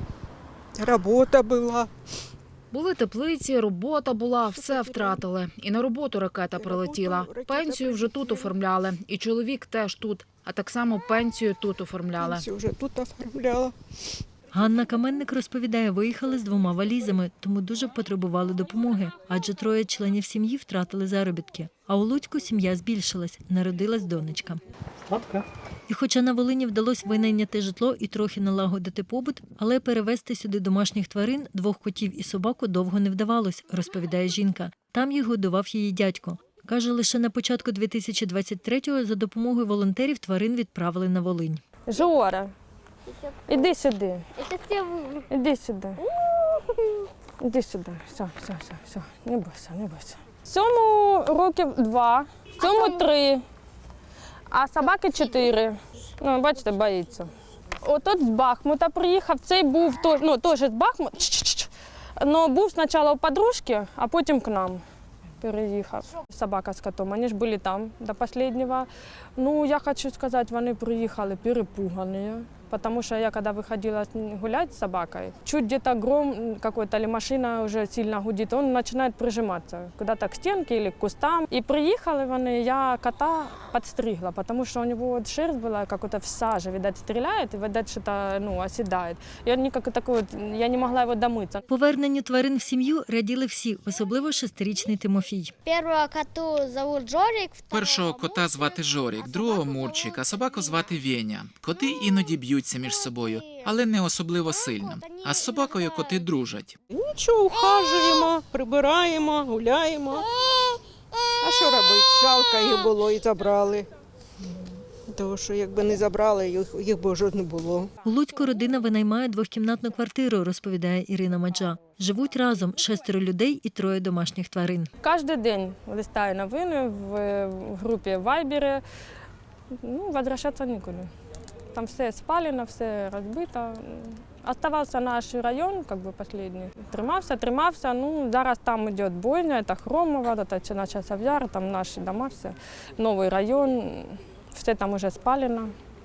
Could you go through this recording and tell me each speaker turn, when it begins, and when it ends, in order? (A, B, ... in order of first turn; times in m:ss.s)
0:00.8-0:01.9 A
0:02.7-0:12.4 B
0:04.4-0:05.2 A
0:06.5-0:08.5 A
0:12.2-0:13.8 A
0:14.5-0:24.6 C
0:25.1-0:41.6 C
0:41.8-0:42.5 D
0:43.1-0:43.7 E
0:43.5-0:44.4 D
0:44.4-0:45.3 E
0:45.3-0:46.0 D
0:47.4-0:53.4 D
0:52.6-0:53.0 E
0:54.5-1:04.8 D
1:05.4-1:31.6 D
1:31.7-1:35.5 C
1:35.6-1:40.9 E
1:37.7-1:46.8 F
1:41.8-1:42.3 E
1:42.8-1:43.8 E
1:44.5-1:46.3 E
1:46.9-1:50.3 A
1:47.6-1:48.2 E
1:50.4-1:51.4 E
1:51.4-1:53.9 A
1:55.1-1:57.9 A
1:58.0-2:04.9 C
2:05.0-2:08.8 D
2:09.8-2:11.1 D
2:11.7-2:25.7 D